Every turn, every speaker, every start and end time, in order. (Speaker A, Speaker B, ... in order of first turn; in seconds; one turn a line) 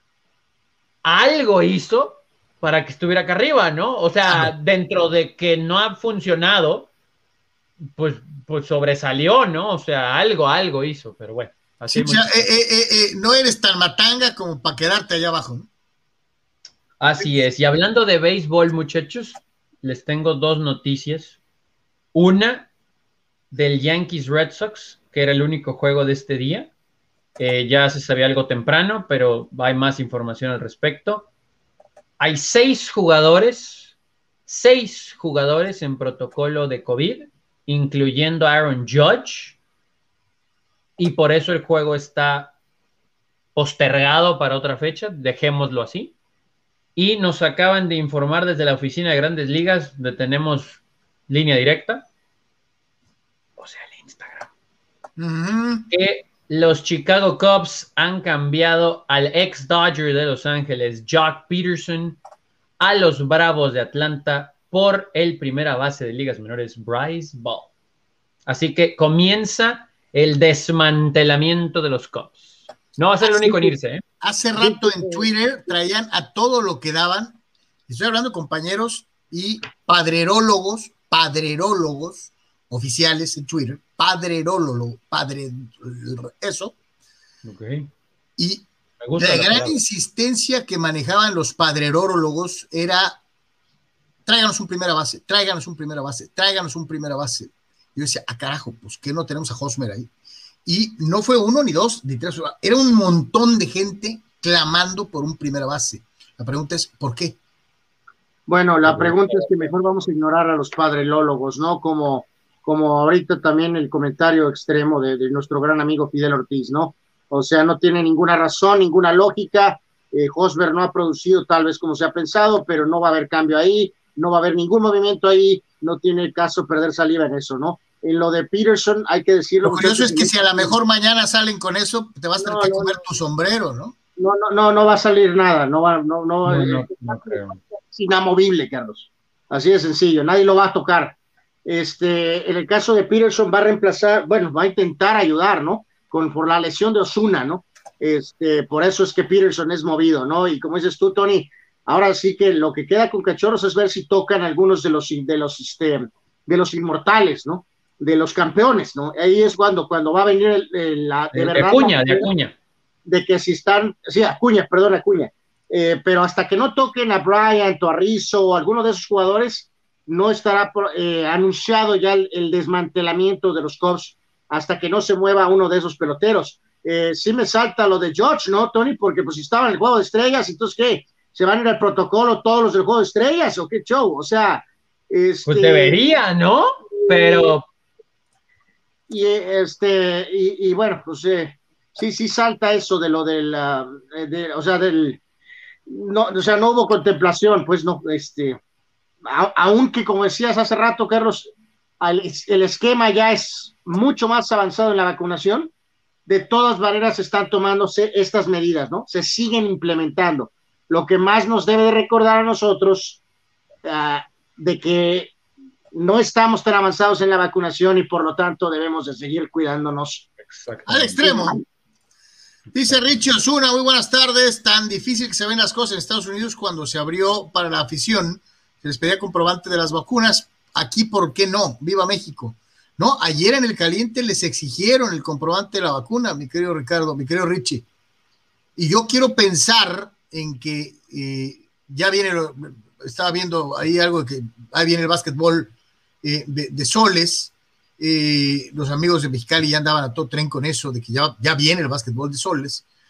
Speaker A: 1.0-6.9
Speaker B: 4.2-4.5
Speaker A: 7.8-12.5
Speaker B: 11.9-15.7
Speaker A: 17.0-21.4
Speaker A: 22.1-22.7
Speaker A: 23.5-26.7
Speaker A: 27.4-31.3
Speaker A: 32.2-33.9
Speaker A: 34.5-39.6
Speaker A: 41.0-42.5
Speaker A: 43.5-46.1
Speaker A: 47.0-52.0
Speaker A: 53.6-54.5
Speaker B: 55.2-55.9
Speaker A: 55.9-62.2
Speaker A: 62.8-67.7
Speaker A: 68.5-74.0
Speaker B: 74.2-86.7
Speaker C: 74.6-75.3
Speaker A: 87.4-87.9
Speaker B: 88.4-93.2
Speaker A: 89.0-89.8
Speaker B: 94.2-100.1
Speaker B: 100.6-107.4
Speaker C: 108.5-130.7
Speaker A: 108.8-109.7
Speaker B: 129.6-133.9
Speaker C: 132.4-133.0
Speaker C: 134.2-162.3
Speaker A: 136.4-137.6
Speaker A: 161.3-162.5
Speaker C: 163.1-186.0
Speaker A: 185.4-187.7
Speaker C: 187.0-187.6
Speaker C: 189.1-195.2
Speaker C: 195.9-198.6
Speaker C: 199.2-205.7
Speaker C: 206.2-213.2
Speaker C: 213.8-215.3
Speaker C: 215.9-220.3
Speaker A: 220.4-221.2
Speaker B: 220.9-221.6
Speaker C: 221.2-221.6
Speaker B: 222.7-237.8
Speaker B: 238.8-252.8